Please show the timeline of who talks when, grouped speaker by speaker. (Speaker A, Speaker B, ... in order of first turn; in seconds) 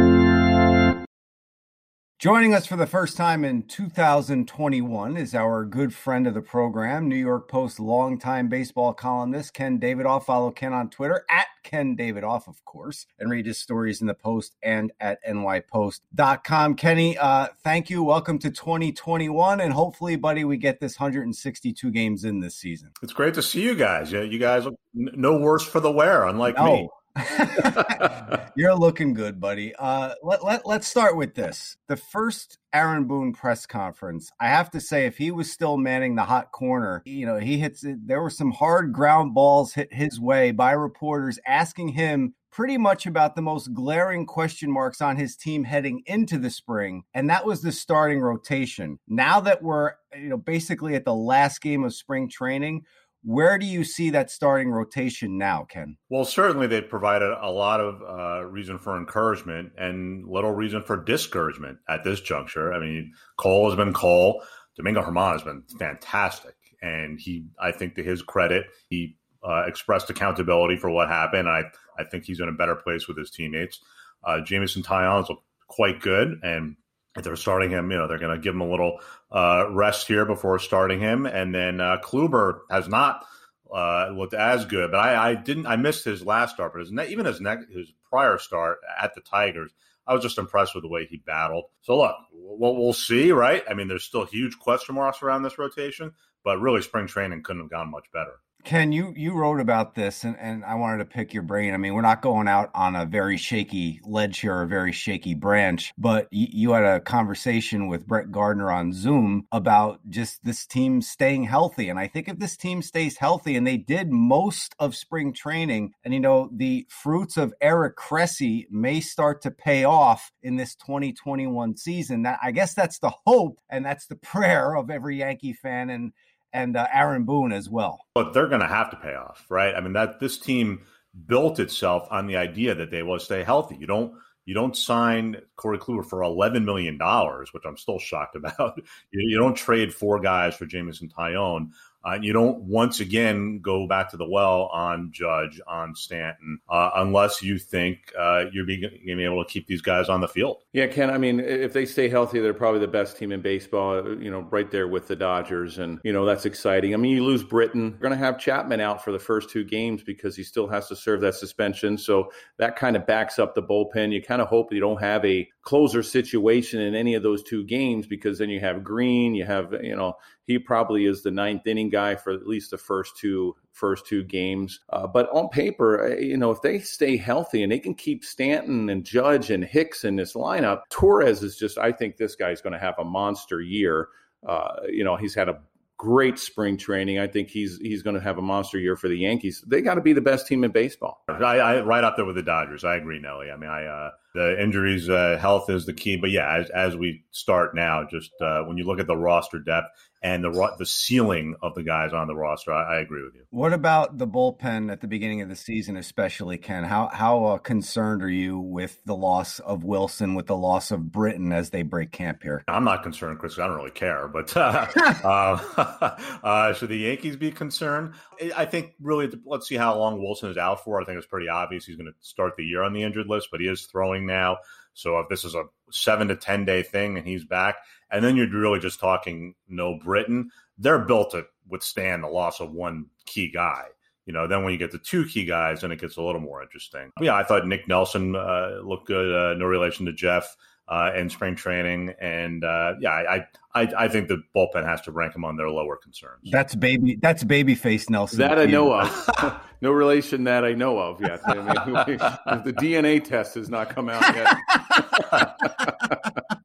Speaker A: 2.2-22.9, 26.5-56.0, 98.6-128.0, 203.5-212.7, 246.5-249.2
Speaker B: 23.0-26.9, 56.1-98.4, 128.2-150.6, 191.3-203.4, 212.7-246.5
Speaker C: 150.7-191.2, 248.3-256.4